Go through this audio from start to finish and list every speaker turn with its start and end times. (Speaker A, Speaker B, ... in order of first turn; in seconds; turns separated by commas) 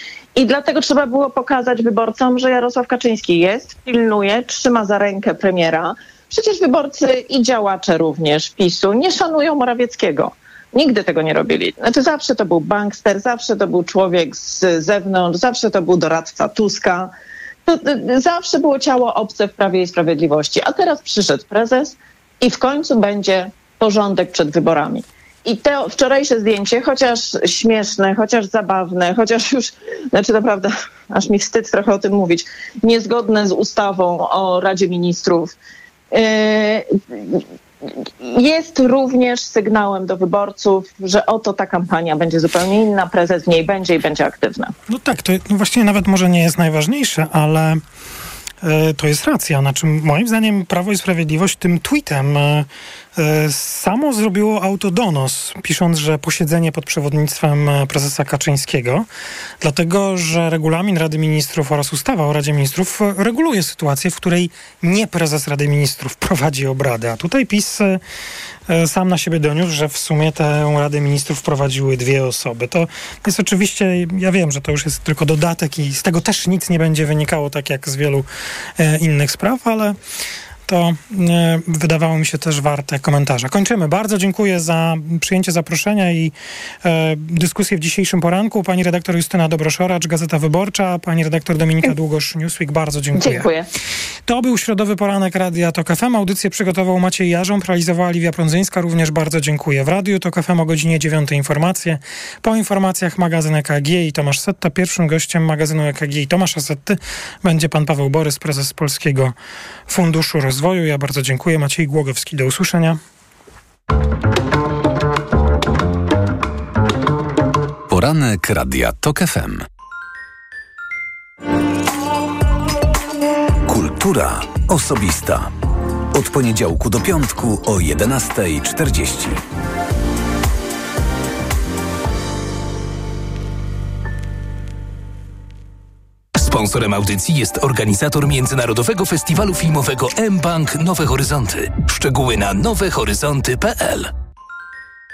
Speaker A: 0.3-17.1, Speaker A: 17.6-35.5, Speaker A: 36.1-37.4, Speaker A: 38.0-44.7, Speaker B: 44.9-47.8, Speaker B: 48.6-59.0, Speaker B: 59.6-68.0, Speaker B: 68.7-78.3, Speaker B: 78.8-80.0, Speaker B: 80.7-93.5, Speaker A: 93.1-93.7, Speaker B: 94.2-109.3, Speaker B: 109.9-113.0, Speaker C: 117.9-119.7, Speaker C: 123.7-125.5, Speaker C: 126.1-129.4, Speaker D: 136.3-144.1